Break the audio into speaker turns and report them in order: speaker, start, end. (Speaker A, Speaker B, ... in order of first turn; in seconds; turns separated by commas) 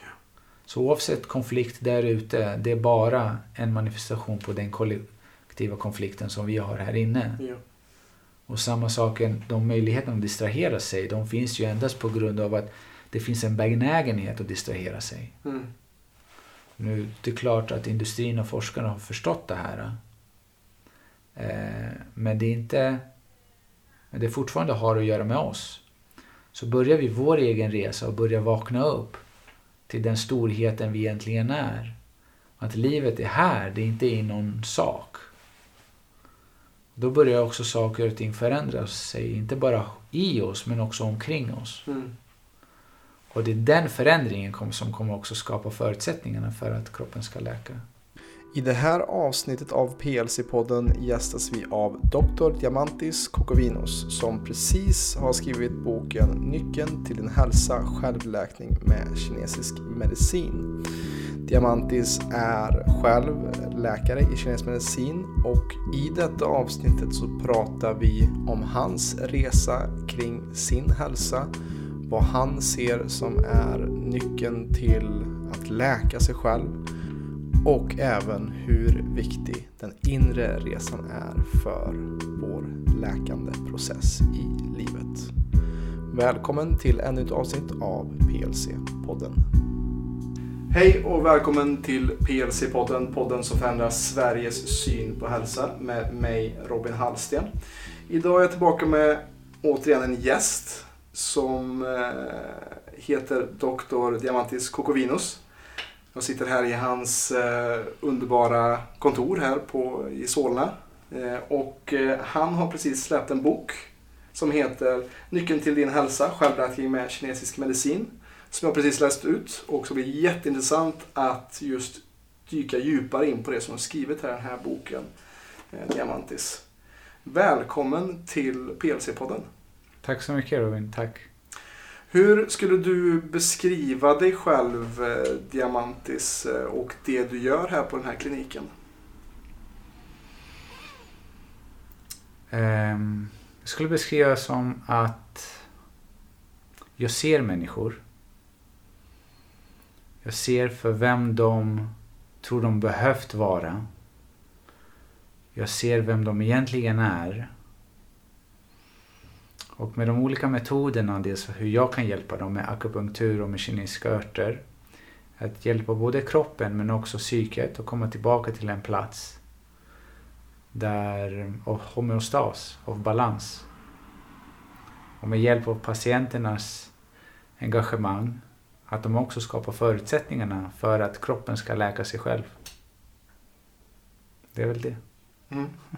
Speaker A: 0.7-7.4, Speaker A: 8.5-15.3, Speaker B: 15.4-15.7, Speaker A: 16.8-20.0, Speaker A: 21.4-23.1, Speaker A: 24.1-25.8, Speaker A: 26.5-29.2, Speaker A: 29.9-32.0, Speaker A: 32.6-35.3, Speaker A: 37.0-41.9, Speaker B: 41.9-42.1, Speaker A: 43.3-47.9, Speaker B: 48.5-60.8, Speaker B: 61.4-71.5, Speaker B: 72.1-76.8, Speaker B: 77.6-85.3, Speaker B: 86.1-89.5, Speaker B: 90.7-97.5, Speaker B: 98.1-105.4, Speaker B: 106.1-125.1, Speaker B: 125.7-126.6, Speaker B: 127.2-129.5, Speaker A: 130.0-131.3, Speaker B: 132.1-138.7, Speaker A: 142.5-145.7, Speaker A: 147.0-148.0, Speaker A: 150.2-153.9, Speaker A: 155.6-157.5, Speaker A: 159.8-164.6, Speaker A: 165.4-169.4, Speaker A: 170.7-173.7, Speaker A: 175.2-176.9, Speaker A: 177.6-182.5, Speaker A: 184.6-185.0, Speaker B: 185.5-185.8